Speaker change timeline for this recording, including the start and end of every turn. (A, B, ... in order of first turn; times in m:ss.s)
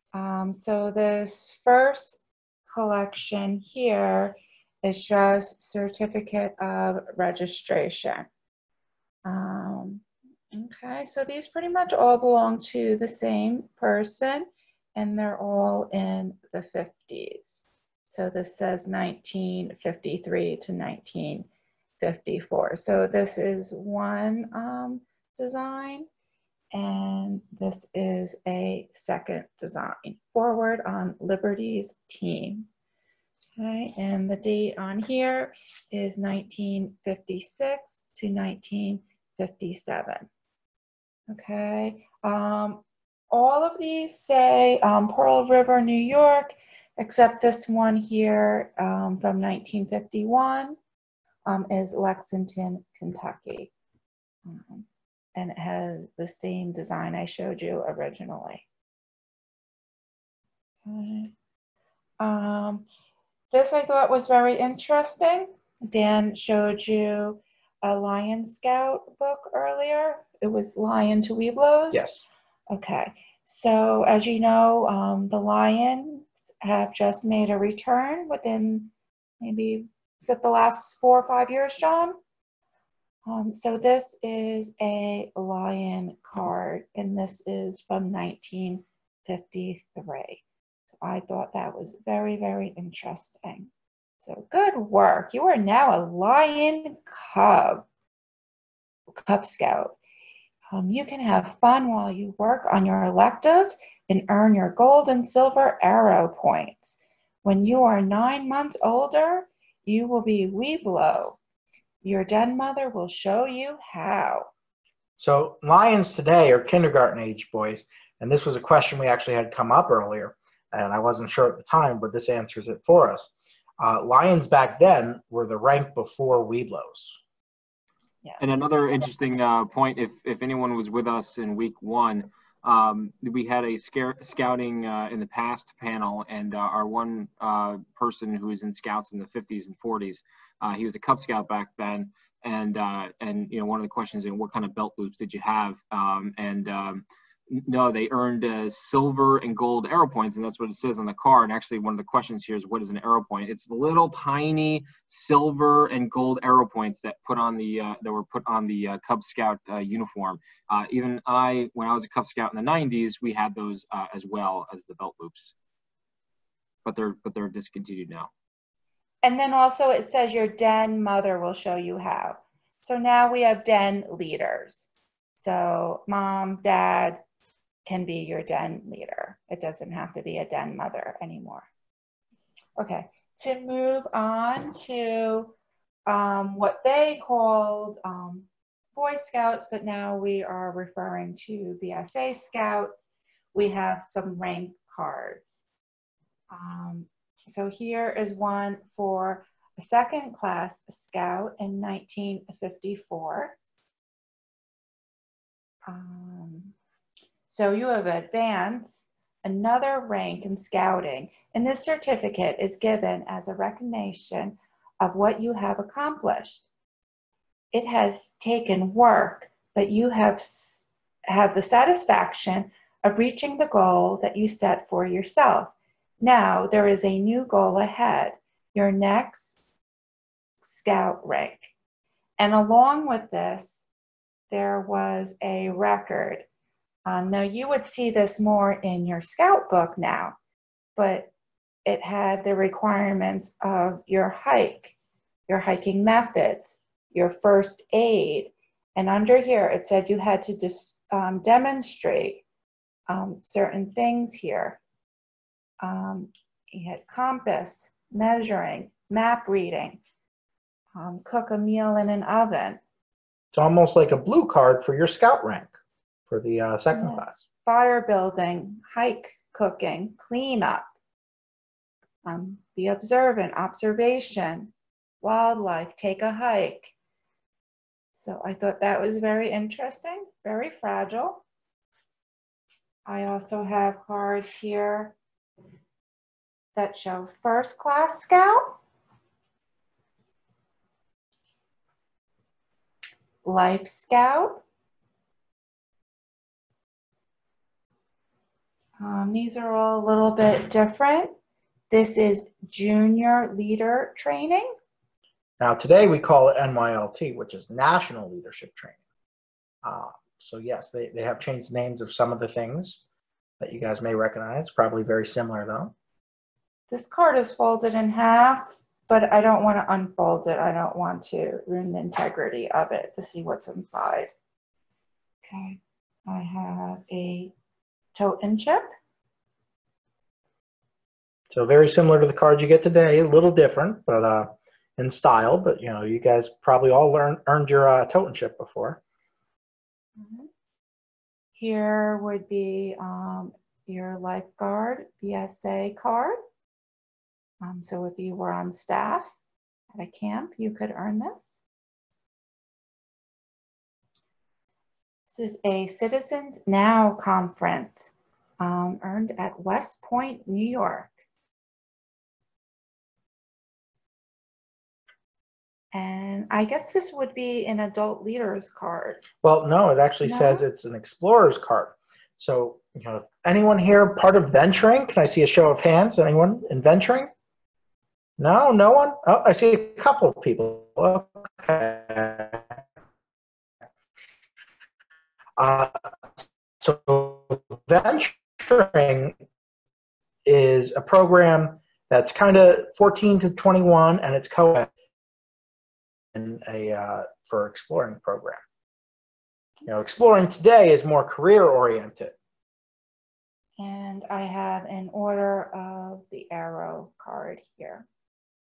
0:00.1-0:08.3 A
0:09.2-0:21.5 A
0:22.0-0:26.1 A
0:26.7-0:32.7 A
0:33.6-0:40.3 A
0:41.3-0:50.8 A
0:51.5-0:53.7 A
0:54.5-0:58.6 A
1:00.8-1:01.3 A
1:02.2-1:02.8 A
1:03.5-1:12.1 A
1:11.9-1:12.2 B
1:12.7-1:22.2 A
1:23.3-1:30.4 A
1:31.0-1:33.7 A
1:34.2-1:37.9 A
1:39.2-1:40.0 A
1:40.7-1:51.4 A
1:52.0-1:54.5 A
1:55.2-2:07.2 B
2:08.4-2:45.5 C
2:46.8-2:48.3 C
2:49.2-2:57.2 A
2:57.9-3:01.7 A
3:02.8-3:05.5 A
3:06.1-3:15.6 A
3:16.5-3:23.6 A
3:25.8-3:26.7 A
3:27.5-3:36.6 A
3:37.7-3:49.6 A
3:50.6-3:51.7 A
3:52.4-3:53.9 A
3:54.5-3:56.5 A
3:57.1-4:00.4 A
4:01.0-4:01.3 A
4:01.8-4:05.0 A
4:05.5-4:12.4 A
4:13.1-4:14.8 A
4:15.8-4:20.0 A
4:21.0-4:22.8 A
4:23.5-4:25.7 B
4:26.3-4:27.4 B
4:26.9-4:30.9 A
4:32.2-4:36.9 A
4:38.1-4:41.4 A
4:43.1-4:45.2 A
4:46.8-4:48.8 A
4:53.4-4:54.6 A
4:59.0-5:01.4 A
5:01.9-5:04.7 A
5:05.6-5:09.0 B
5:09.8-5:13.0 B
5:13.6-5:15.9 B
5:16.9-5:24.3 A
5:25.5-5:27.5 A
5:28.2-5:28.9 A
5:31.5-5:39.0 B
5:40.2-5:40.5 A
5:41.6-5:46.4 A
5:47.6-5:49.3 A
5:49.9-5:51.6 A
5:55.3-6:01.2 A
6:05.9-6:09.3 A
6:09.4-6:17.3 B
6:10.2-6:10.6 A
6:18.4-6:22.8 B
6:25.6-6:29.4 B
6:30.4-6:34.9 B
6:36.3-6:38.6 B
6:39.9-6:42.4 B
6:43.8-6:48.1 A